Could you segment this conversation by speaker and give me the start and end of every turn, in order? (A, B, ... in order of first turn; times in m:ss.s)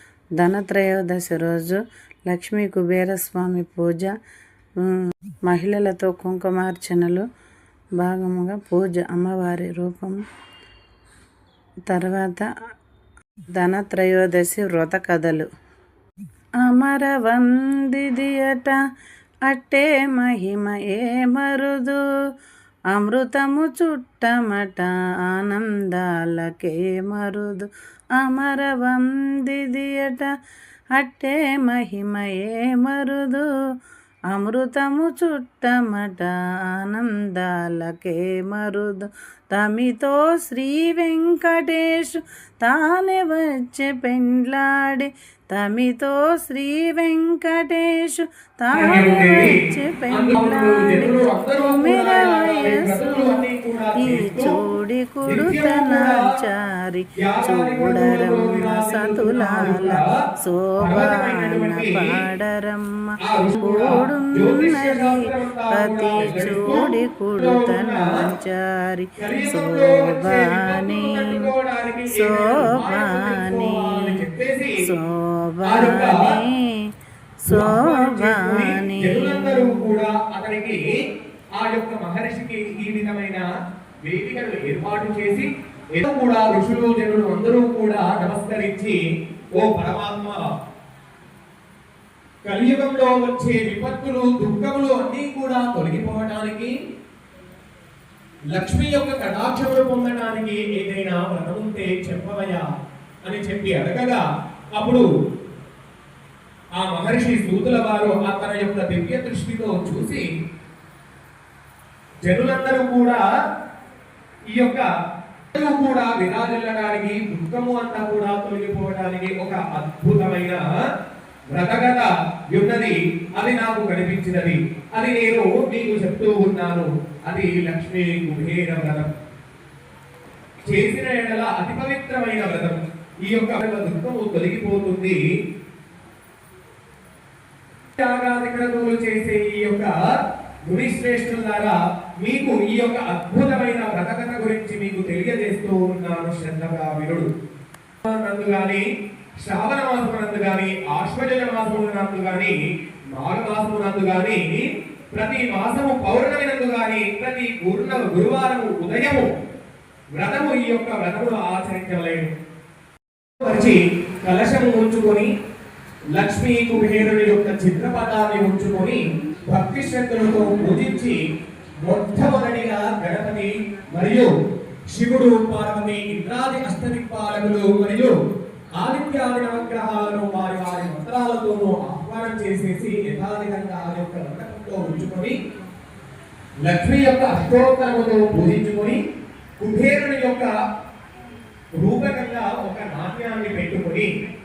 0:00.4-0:04.1 A
0:04.8-0:07.3 A
0:08.0-0:10.2 A
0:11.9-0:12.5 A
0:13.6-0:15.5 A
0:16.6-0:18.8 A
0:19.5-0:22.0 A
0:22.9-0:30.3 A
0:31.0-0:33.5 A
0:34.3-0:53.4 A
0:48.8-0:49.6 B
0:50.1-0:54.6 B
0:54.0-1:11.5 A
0:55.3-0:56.2 B
0:57.2-1:00.1 B
1:00.8-1:02.1 B
1:03.2-1:08.1 B
1:09.2-1:14.8 B
1:12.1-1:14.2 A
1:14.8-1:16.8 A
1:15.6-1:16.3 B
1:17.5-1:19.7 A
1:17.5-1:20.8 B
1:21.6-1:23.5 B
1:24.1-1:29.0 B
1:29.6-1:30.4 B
1:32.5-1:36.7 B
1:38.5-1:42.7 B
1:43.2-1:44.2 B
1:44.8-1:45.1 B
1:46.8-1:50.2 B
1:52.2-1:53.2 B
1:54.5-1:54.9 B
1:55.5-2:00.7 B
2:01.5-2:09.1 B
2:10.7-2:15.2 B
2:18.0-2:20.0 B
2:20.7-2:27.3 B
2:28.0-2:28.8 B
2:29.4-2:32.6 B
2:33.1-2:39.3 B
2:40.2-2:42.3 B
2:43.4-2:45.3 B
2:46.2-2:51.2 B
2:51.8-2:54.3 B
2:54.9-2:58.1 B
2:58.8-3:05.4 B
3:06.6-3:09.0 B
3:09.6-3:10.5 B
3:11.8-3:14.1 B